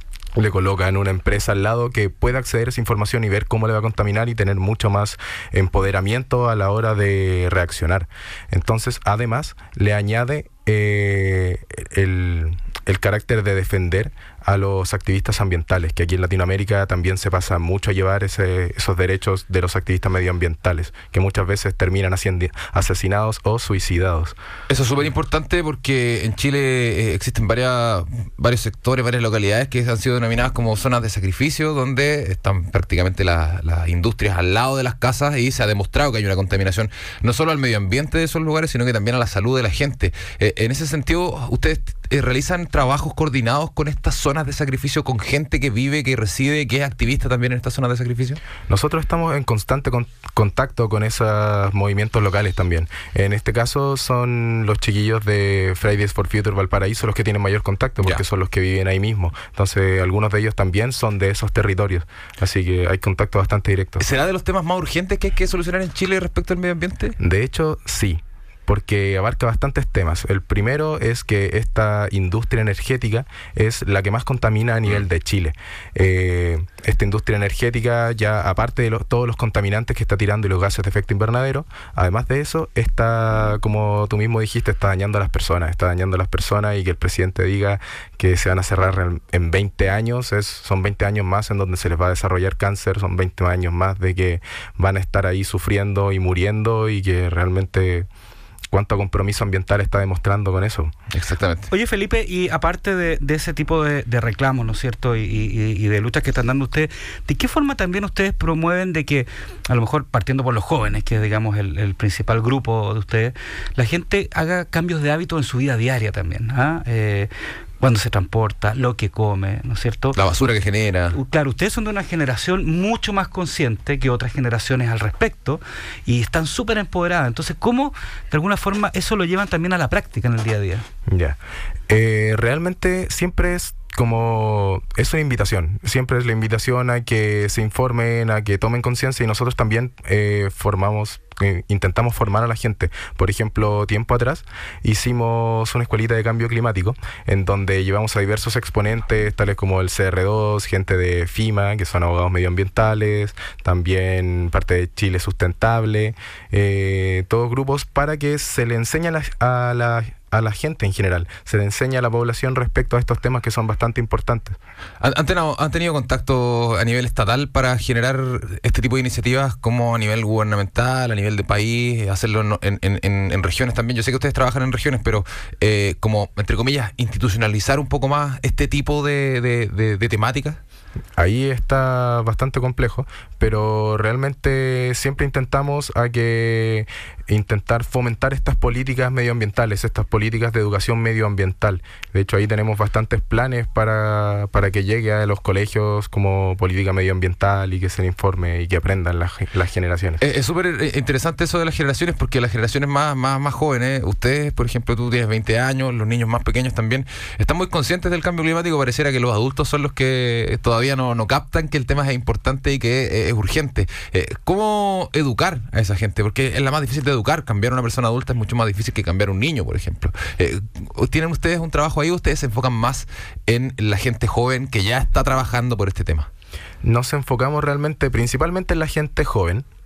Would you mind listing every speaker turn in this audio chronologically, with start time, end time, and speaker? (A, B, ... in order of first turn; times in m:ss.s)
0:00.4-0:24.4 A
0:24.7-0:48.4 B
0:48.7-1:04.0 A
1:04.0-1:07.2 B
1:07.2-1:38.1 A
1:38.7-1:40.9 A
1:41.1-1:41.7 B
1:41.7-2:00.2 C
2:00.2-2:01.2 B
2:01.1-2:10.8 C
2:11.1-2:11.4 A
2:11.9-2:44.6 A
2:45.0-3:00.6 B
3:01.2-3:20.2 A
3:20.2-3:46.3 B
3:46.8-3:49.7 A